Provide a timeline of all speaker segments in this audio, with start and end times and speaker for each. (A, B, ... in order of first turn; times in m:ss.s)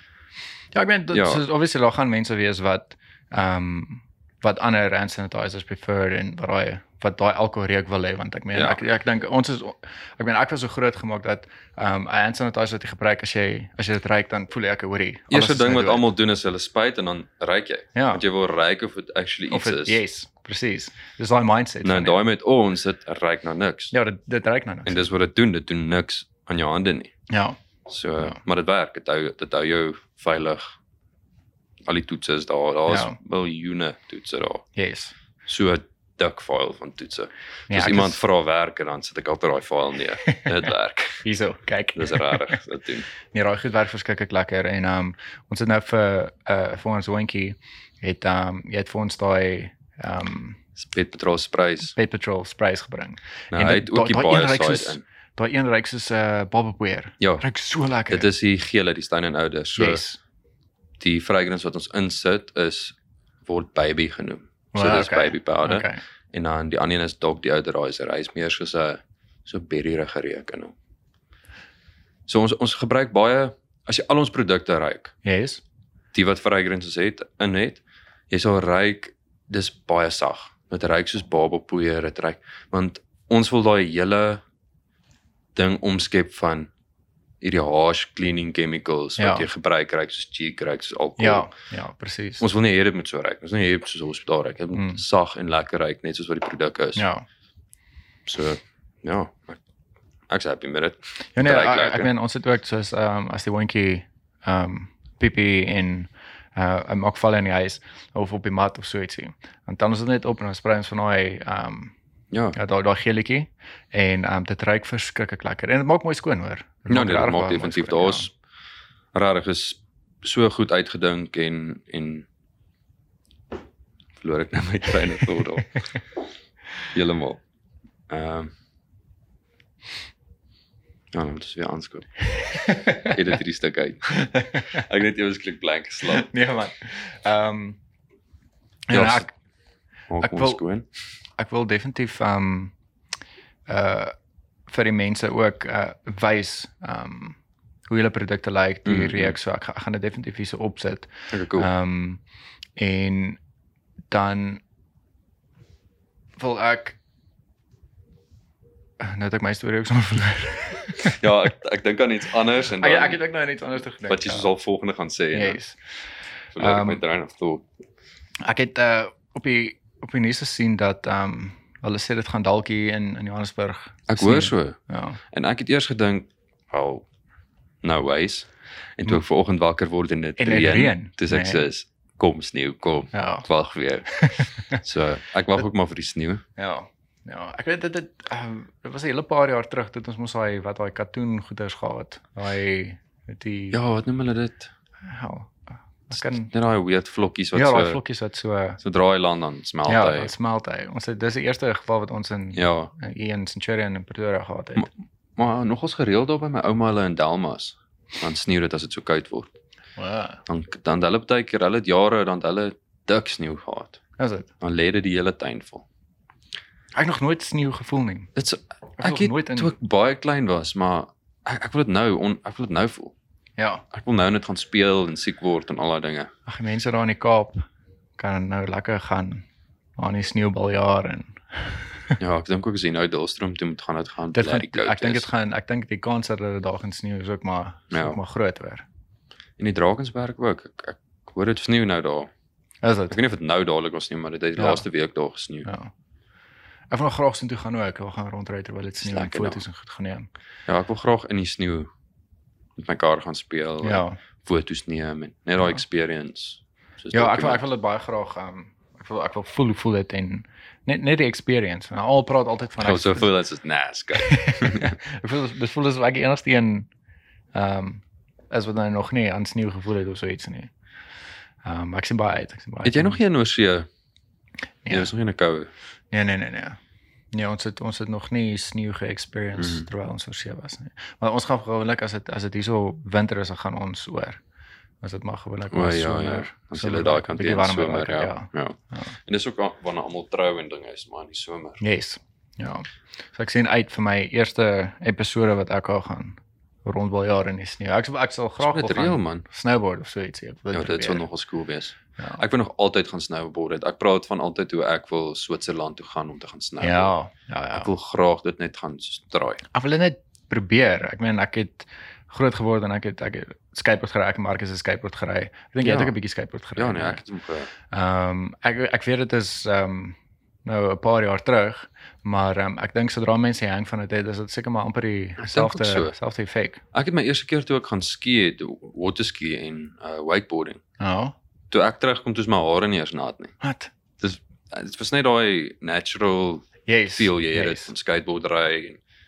0:00.7-0:16.1 A
0:01.1-0:01.4 B
0:08.5-0:08.8 B
0:15.3-0:20.0 B
0:17.9-0:18.2 A
0:19.5-0:22.2 A
0:21.8-0:23.9 B
0:23.9-0:25.1 A
0:24.8-0:27.1 B
0:27.3-0:27.6 A
0:27.9-0:30.7 B
0:31.8-0:34.6 B
0:32.9-0:33.2 A
0:34.8-0:35.1 A
0:35.4-0:41.2 B
0:37.7-0:38.2 A
0:41.2-0:42.6 A
0:41.9-0:43.1 B
0:43.3-0:50.6 A
0:50.8-0:51.9 B
0:51.9-0:58.3 A
0:53.5-0:55.0 B
0:58.1-1:00.0 B
0:59.8-1:00.2 A
1:01.0-1:10.7 B
1:04.7-1:06.0 A
1:12.3-1:15.1 B
1:15.2-1:15.6 A
1:16.1-1:24.4 B
1:25.5-1:26.7 B
1:27.4-1:31.5 B
1:29.2-1:29.5 A
1:31.2-1:32.4 A
1:32.4-1:37.1 B
1:34.7-1:35.0 A
1:37.0-1:37.2 A
1:38.2-1:39.6 B
1:40.3-1:42.1 B
1:41.4-1:51.9 A
1:52.3-1:52.6 B
1:52.5-1:58.3 A
1:56.9-1:58.3 B
1:59.1-2:02.3 B
2:04.2-2:05.8 B
2:06.9-2:07.4 B
2:08.1-2:08.5 B
2:11.1-2:12.1 B
2:12.4-2:13.2 A
2:12.9-2:16.3 B
2:14.1-2:14.8 A
2:16.1-2:17.8 A
2:18.9-2:19.3 A
2:18.9-2:19.2 B
2:20.1-2:20.8 B
2:20.2-2:20.6 A
2:21.4-2:22.7 A
2:23.7-2:24.1 A
2:24.7-2:32.2 A
2:28.8-2:29.4 B
2:31.3-2:31.7 B
2:32.8-2:33.4 A
2:34.1-2:34.6 A
2:36.4-2:37.0 A
2:39.0-2:41.2 A
2:41.0-2:43.2 B
2:42.7-2:44.5 A
2:44.1-2:45.6 B
2:45.3-2:45.8 A
2:46.5-2:47.6 B
2:46.6-2:47.0 A
2:48.4-2:55.2 A
2:54.1-2:54.8 B
2:55.3-2:57.0 B
2:57.8-3:06.4 B
3:00.4-3:01.6 A
3:03.1-3:03.5 A
3:04.1-3:04.8 A
3:06.6-3:13.8 A
3:13.7-3:14.7 B
3:15.0-3:16.5 A
3:16.1-3:18.0 B
3:17.5-3:18.8 A
3:18.8-3:20.3 B
3:19.9-3:24.9 A
3:22.5-3:22.9 B
3:24.8-3:29.5 B
3:30.0-3:30.4 A
3:30.4-3:34.0 B
3:34.2-3:34.5 A
3:34.6-3:35.8 B
3:36.9-3:38.3 A
3:38.4-3:43.1 B
3:39.0-3:39.7 A
3:43.6-3:43.8 A
3:43.9-3:46.3 B
3:46.5-3:47.6 A
3:48.2-3:49.4 A
3:50.0-3:52.2 A
3:52.2-3:55.3 B
3:54.3-3:58.8 A
3:57.9-3:58.2 B
3:59.6-4:02.3 B
4:02.8-4:03.2 A
4:03.1-4:05.7 B
4:04.6-4:04.8 A
4:05.6-4:05.9 A
4:06.9-4:10.3 A
4:09.0-4:09.6 B
4:10.7-4:11.9 B
4:12.8-4:17.6 B
4:13.8-4:14.2 A
4:17.1-4:23.3 A
4:22.8-4:25.0 B
4:24.1-4:26.9 A
4:27.5-4:30.7 A
4:31.6-4:33.2 A
4:32.8-4:33.9 B
4:34.8-4:35.1 A
4:34.9-4:35.7 B
4:36.1-4:36.8 A
4:37.3-4:44.4 A
4:39.6-4:39.8 B
4:45.0-4:49.1 A
4:45.7-4:51.8 B
4:51.8-5:01.2 A
4:58.6-4:59.4 B
5:00.7-5:07.1 B
5:02.2-5:02.4 A
5:06.8-5:07.9 A
5:07.7-5:09.6 B
5:09.7-5:17.2 A
5:15.8-5:16.1 B
5:16.8-5:17.7 B
5:17.9-5:26.8 A
5:25.4-5:26.1 B
5:26.9-5:30.8 B
5:31.0-5:31.3 A
5:31.7-5:33.5 B
5:33.6-5:33.9 A
5:34.2-5:39.0 B
5:36.9-5:37.9 A